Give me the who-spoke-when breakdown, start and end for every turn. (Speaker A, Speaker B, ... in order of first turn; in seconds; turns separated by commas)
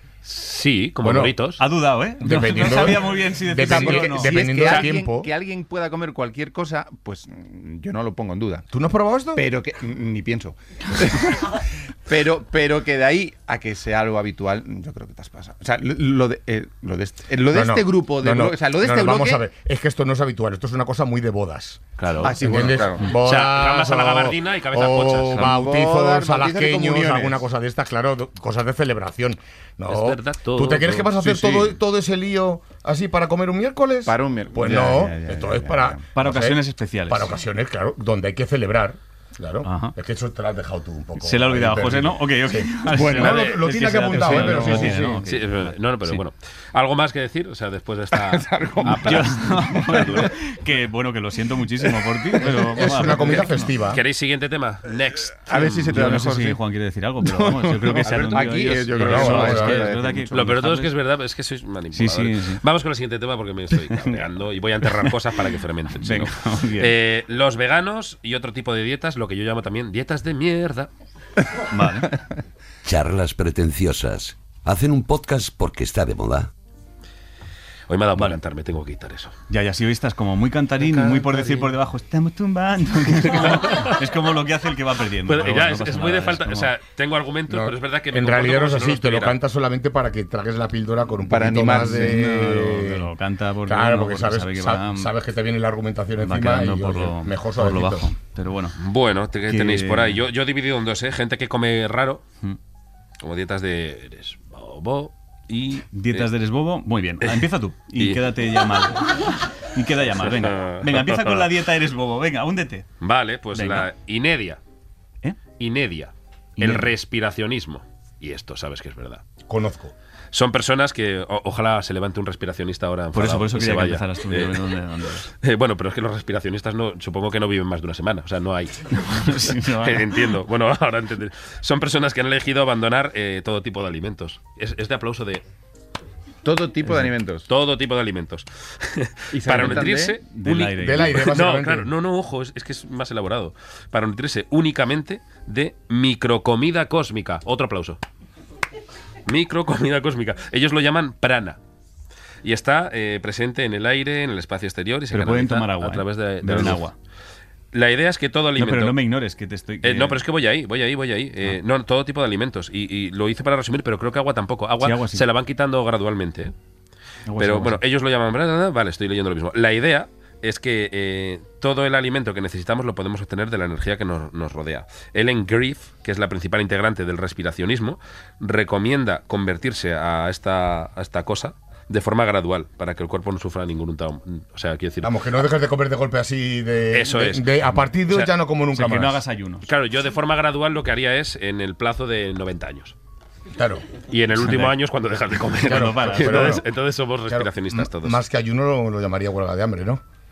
Speaker A: 0.2-1.6, Speaker B: 1.0-1.4, Speaker C: 1.6-4.7, Speaker B: 2.2-5.3, Speaker D: 3.6-8.7, Speaker B: 8.7-9.4, Speaker D: 9.4-19.4, Speaker B: 17.5-21.8, Speaker A: 22.0-22.4, Speaker D: 22.2-23.1, Speaker B: 22.3-45.2, Speaker A: 23.1-25.5, Speaker D: 25.4-27.4, Speaker A: 29.9-31.1, Speaker D: 31.2-31.6, Speaker D: 34.1-36.0, Speaker C: 36.1-37.4, Speaker C: 39.6-40.0, Speaker C: 41.2-46.2, Speaker D: 43.0-43.4, Speaker D: 44.2-45.0, Speaker A: 45.3-50.3, Speaker D: 48.1-50.2, Speaker C: 48.9-53.7, Speaker B: 52.8-54.0, Speaker A: 53.9-56.0, Speaker D: 55.5-56.6, Speaker C: 55.9-60.9, Speaker D: 57.2-60.6, Speaker B: 59.0-59.8, Speaker A: 60.3-70.9, Speaker C: 61.9-62.6, Speaker C: 63.8-64.2, Speaker C: 64.8-65.1, Speaker C: 66.0-67.0, Speaker C: 71.7-72.1, Speaker E: 72.8-76.5, Speaker A: 77.9-79.3, Speaker C: 79.5-86.7, Speaker A: 80.8-81.5, Speaker A: 83.3-84.0, Speaker A: 85.3-89.4, Speaker B: 87.5-93.1, Speaker D: 91.2-92.2, Speaker C: 91.7-95.1, Speaker B: 93.7-98.1, Speaker C: 96.2-98.8, Speaker A: 98.8-102.2, Speaker C: 99.5-100.2, Speaker A: 103.2-106.3, Speaker C: 105.9-112.9, Speaker A: 110.2-111.5, Speaker A: 113.0-114.6, Speaker C: 113.5-113.9, Speaker A: 115.6-119.2, Speaker C: 116.6-116.9, Speaker B: 119.5-119.9, Speaker A: 120.3-124.6, Speaker C: 123.1-125.3, Speaker A: 125.4-135.4, Speaker C: 129.0-130.1, Speaker D: 136.4-137.5, Speaker A: 137.5-148.0, Speaker D: 139.3-140.2, Speaker C: 139.6-141.3, Speaker B: 140.8-141.9, Speaker A: 149.3-151.6, Speaker A: 152.4-156.8, Speaker C: 155.1-156.9, Speaker A: 157.7-159.0, Speaker C: 158.6-160.2, Speaker A: 159.8-166.5, Speaker C: 164.8-165.2, Speaker C: 167.3-167.8, Speaker A: 167.4-185.4, Speaker B: 185.0-189.2, Speaker A: 186.9-188.3, Speaker C: 188.7-189.7, Speaker A: 189.7-192.9, Speaker B: 193.6-193.8, Speaker A: 194.1-198.2, Speaker C: 194.4-194.7, Speaker B: 195.6-196.7, Speaker C: 195.7-196.6, Speaker B: 197.3-200.0